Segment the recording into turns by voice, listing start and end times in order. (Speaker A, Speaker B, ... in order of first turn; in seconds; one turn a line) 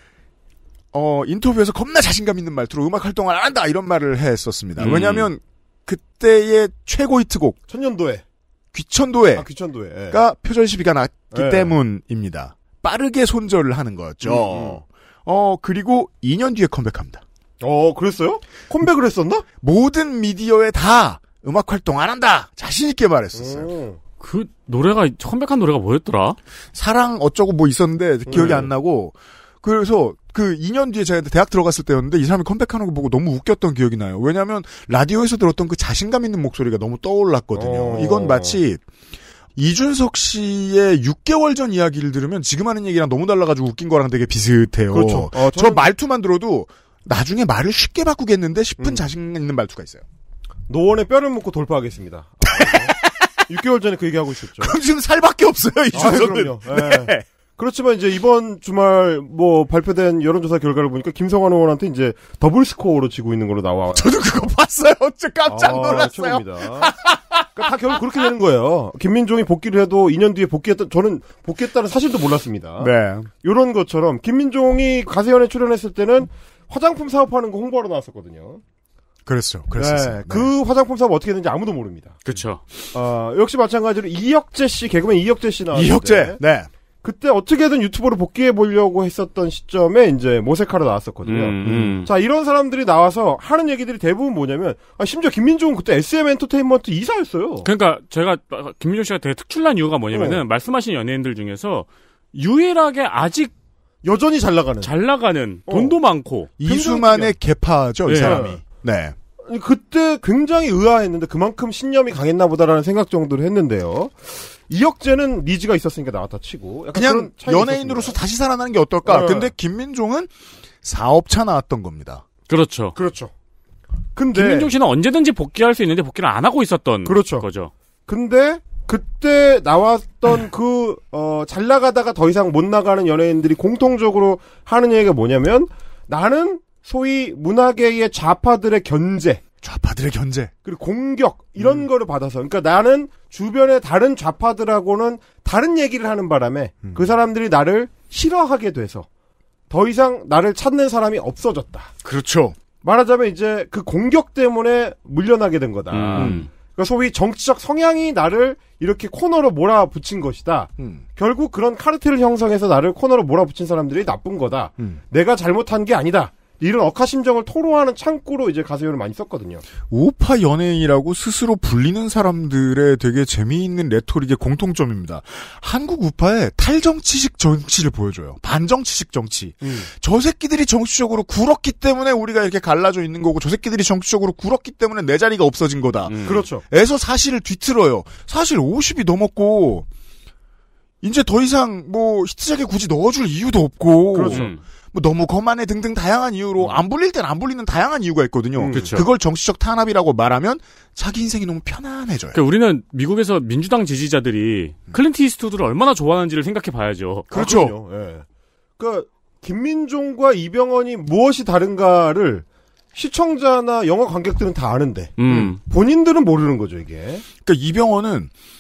Speaker A: 0.9-7.6
Speaker B: 4.8-5.3
Speaker C: 7.7-8.2
Speaker A: 8.7-9.5
Speaker C: 9.3-10.2
Speaker A: 10.1-17.2
Speaker C: 11.3-11.8
Speaker C: 14.2-14.8
Speaker C: 17.6-19.4
Speaker A: 19.6-23.7
Speaker C: 23.4-24.0
Speaker B: 24.2-26.4
Speaker A: 26.7-38.8
Speaker C: 28.3-28.6
Speaker B: 28.3-28.6
Speaker C: 37.5-38.6
Speaker A: 39.6-50.0
Speaker C: 44.9-45.9
Speaker C: 48.8-49.0
Speaker C: 50.7-54.8
Speaker A: 52.6-53.3
Speaker A: 54.6-57.2
Speaker C: 55.9-64.1
Speaker A: 63.9-67.5
Speaker C: 65.5-66.9
Speaker C: 67.5-78.6
Speaker A: 72.8-73.3
Speaker A: 79.3-80.5
Speaker C: 79.8-82.2
Speaker B: 82.2-82.6
Speaker C: 82.9-86.4
Speaker A: 85.7-86.7
Speaker C: 87.0-97.7
Speaker B: 91.3-92.1
Speaker A: 91.6-92.0
Speaker B: 97.6-103.5
Speaker C: 100.1-100.4
Speaker C: 104.0-104.9
Speaker B: 104.8-106.5
Speaker C: 105.7-106.0
Speaker A: 106.6-109.2
Speaker C: 106.6-107.3
Speaker B: 108.1-108.4
Speaker C: 108.2-108.6
Speaker C: 109.5-118.2
Speaker A: 116.9-120.3
Speaker C: 119.1-119.5
Speaker A: 120.8-122.2
Speaker B: 122.5-123.0
Speaker C: 123.0-123.3
Speaker C: 124.2-124.7
Speaker B: 124.3-127.7
Speaker C: 127.0-127.5
Speaker C: 128.1-139.4
Speaker A: 139.6-140.5
Speaker C: 140.6-149.1
Speaker A: 146.8-147.1
Speaker C: 149.7-151.9
Speaker A: 152.0-152.6
Speaker C: 152.8-169.6
Speaker B: 155.9-156.5
Speaker A: 156.2-156.4
Speaker A: 160.8-161.0
Speaker A: 169.9-189.9
Speaker C: 179.6-179.9
Speaker B: 186.1-186.4
Speaker C: 186.2-186.6
Speaker A: 191.0-202.4
Speaker C: 194.1-194.5
Speaker B: 194.2-194.6
Speaker C: 198.6-199.1
Speaker B: 198.7-199.1
Speaker B: 202.3-207.3
Speaker A: 207.3-207.7
Speaker C: 207.3-208.2
Speaker C: 208.8-217.2
Speaker B: 215.2-215.6
Speaker A: 215.3-215.6
Speaker A: 217.4-218.3